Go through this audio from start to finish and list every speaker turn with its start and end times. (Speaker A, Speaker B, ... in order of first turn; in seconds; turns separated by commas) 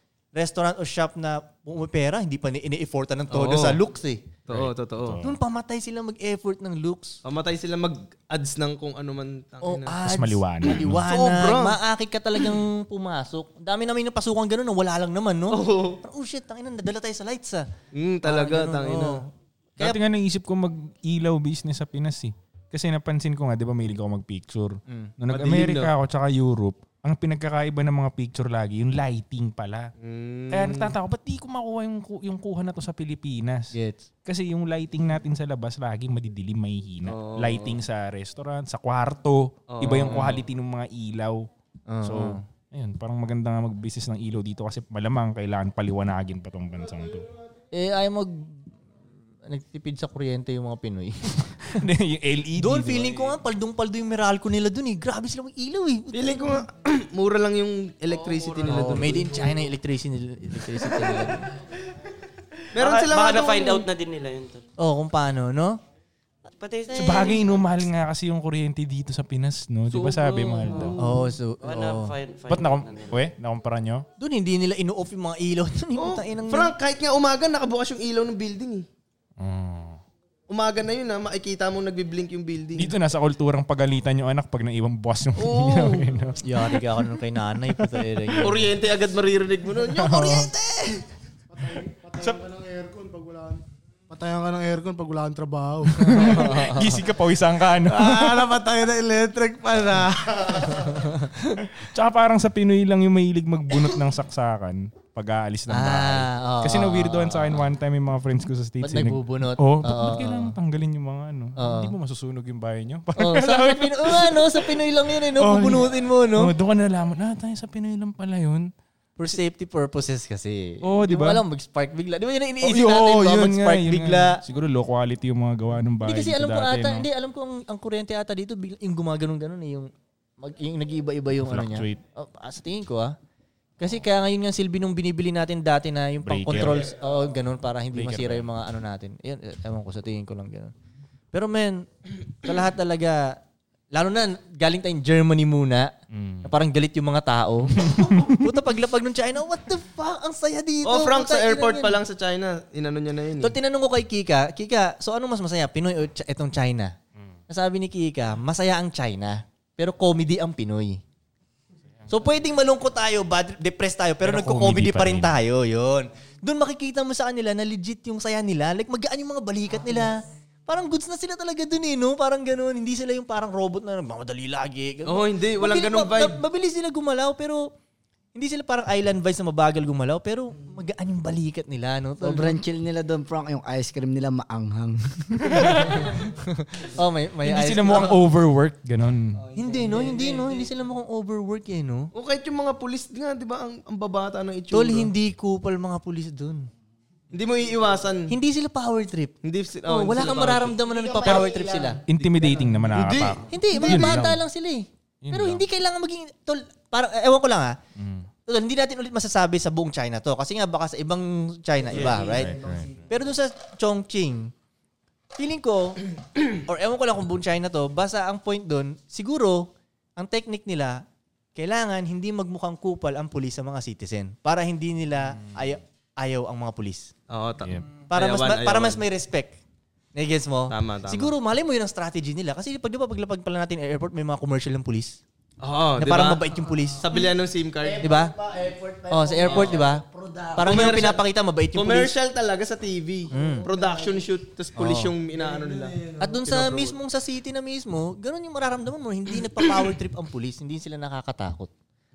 Speaker A: 0.4-4.2, Speaker B: 3.3-3.8, Speaker B: 4.5-5.2, Speaker C: 4.5-5.4, Speaker A: 5.2-7.2, Speaker B: 7.2-10.0, Speaker A: 9.6-17.7, Speaker C: 10.0-11.1, Speaker B: 10.9-11.8, Speaker B: 15.5-16.0, Speaker B: 17.9-19.2, Speaker A: 18.2-19.2, Speaker C: 19.8-29.9, Speaker B: 25.3-25.9, Speaker B: 30.0-30.9, Speaker C: 30.5-41.5, Speaker A: 33.7-34.0, Speaker B: 37.1-37.8, Speaker B: 39.7-40.4, Speaker A: 41.9-42.4, Speaker C: 42.0-47.3, Speaker A: 47.7-48.6, Speaker A: 49.5-51.8, Speaker C: 51.7-53.4, Speaker A: 52.6-56.6, Speaker B: 56.1-59.4, Speaker D: 58.2-58.8, Speaker A: 58.7-61.5, Speaker B: 62.7-63.9, Speaker D: 62.8-64.6, Speaker A: 64.8-65.8, Speaker D: 66.5-67.4, Speaker C: 66.9-71.0, Speaker A: 67.0-67.3, Speaker D: 69.9-71.1, Speaker A: 71.0-72.1, Speaker D: 71.6-73.2, Speaker C: 72.5-74.0, Speaker A: 74.2-76.7, Speaker B: 76.0-78.9, Speaker C: 79.4-80.0, Speaker B: 80.5-82.9, Speaker C: 82.8-86.8, Speaker B: 85.4-86.1, Speaker A: 86.4-88.7, Speaker B: 88.4-91.0, Speaker C: 90.0-90.5, Speaker E: 91.5-96.9, Speaker C: 95.9-98.6, Speaker A: 96.1-96.7, Speaker E: 97.8-101.3, Speaker C: 101.7-114.8, Speaker A: 105.7-107.7, Speaker A: 108.8-110.6, Speaker A: 111.6-112.0, Speaker A: 113.2-116.5, Speaker C: 115.3-118.7, Speaker A: 119.2-124.4, Speaker C: 120.8-121.4, Speaker C: 122.6-127.1, Speaker A: 126.0-133.2, Speaker C: 131.5-132.0, Speaker A: 133.8-140.7, Speaker C: 136.2-136.9, Speaker C: 137.9-138.5, Speaker A: 141.3-141.9, Speaker A: 142.4-143.4, Speaker A: 143.9-145.9, Speaker C: 146.1-146.5, Speaker A: 146.4-152.0, Speaker C: 147.8-148.4, Speaker B: 150.8-153.6, Speaker A: 153.4-156.9, Speaker A: 157.5-161.0, Speaker A: 162.1-177.7, Speaker C: 164.2-165.4, Speaker B: 175.1-176.4, Speaker A: 178.3-182.6, Speaker F: 182.2-186.1, Speaker C: 185.6-185.9, Speaker A: 185.7-188.2, Speaker C: 187.4-189.4, Speaker F: 189.4-190.7, Speaker A: 189.6-192.1, Speaker B: 192.1-195.1, Speaker A: 194.7-196.7, Speaker B: 197.3-198.3, Speaker A: 198.3-199.3, Speaker B: 199.4-200.8, Speaker A: 199.9-202.0, Speaker F: 200.9-202.0, Speaker C: 201.3-204.4, Speaker B: 202.2-204.0, Speaker A: 203.5-207.8, Speaker C: 205.2-205.6, Speaker C: 208.0-208.3, Speaker A: 208.5-212.6, Speaker F: 211.9-213.1, Speaker C: 212.2-213.0, Speaker A: 213.1-214.5, Speaker A: 215.4-221.0, Speaker A: 221.6-227.1, Speaker B: 227.3-229.0, Speaker A: 228.1-229.6, Speaker A: 230.2-235.2, Speaker B: 230.7-231.3, Speaker B: 235.6-236.4, Speaker A: 236.0-237.2, Speaker B: 237.0-238.1, Speaker F: 237.8-240.8, Speaker A: 238.0-238.3, Speaker A: 239.1-240.0, Speaker B: 239.5-239.8, Speaker B: 240.6-241.2, Speaker A: 240.6-242.2, Speaker B: 241.7-247.0, Speaker A: 243.3-243.7, Speaker F: 243.3-244.3, Speaker A: 244.8-245.1, Speaker F: 245.3-246.3, Speaker A: 246.2-251.7